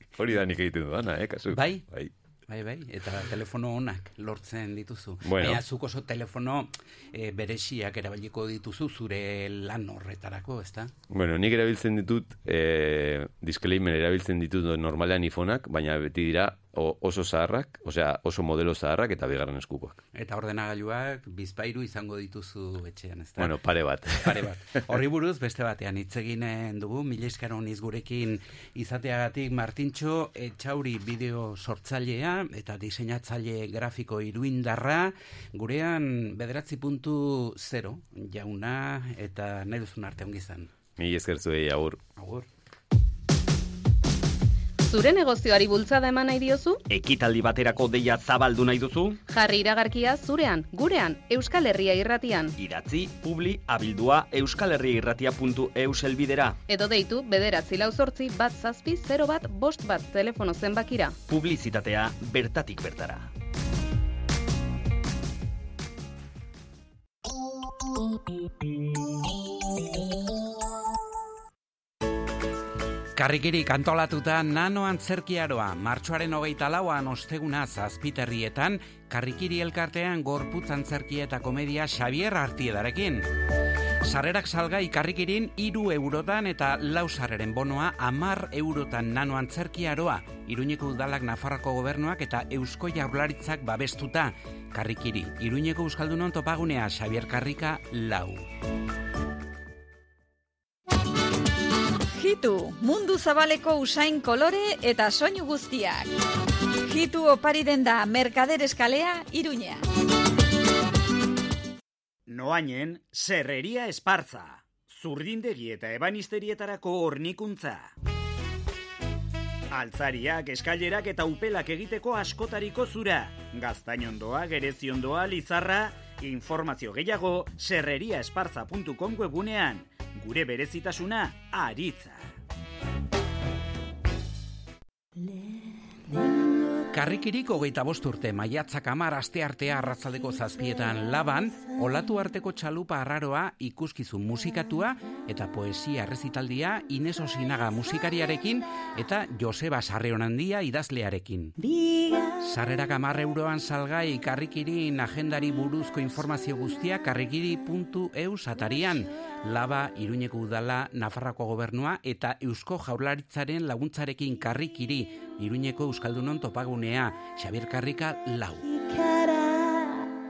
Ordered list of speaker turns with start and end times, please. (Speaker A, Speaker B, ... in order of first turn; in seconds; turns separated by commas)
Speaker A: 0.2-2.1, Speaker B: 1.5-1.9, Speaker B: 2.5-10.9, Speaker A: 5.2-5.6, Speaker A: 11.1-20.0, Speaker B: 20.1-23.5, Speaker A: 23.4-24.5, Speaker B: 24.2-40.7, Speaker A: 41.0-42.0, Speaker B: 42.2-42.5, Speaker C: 44.9-46.8, Speaker D: 46.9-49.2, Speaker C: 49.3-52.5, Speaker D: 52.6-56.6, Speaker C: 56.7-61.2, Speaker D: 61.3-63.3, Speaker B: 73.2-83.3, Speaker B: 84.0-98.5, Speaker E: 102.1-106.1, Speaker E: 106.8-109.8, Speaker F: 112.3-117.9, Speaker F: 119.7-132.2, Speaker B: 136.9-151.6, Speaker B: 152.4-168.8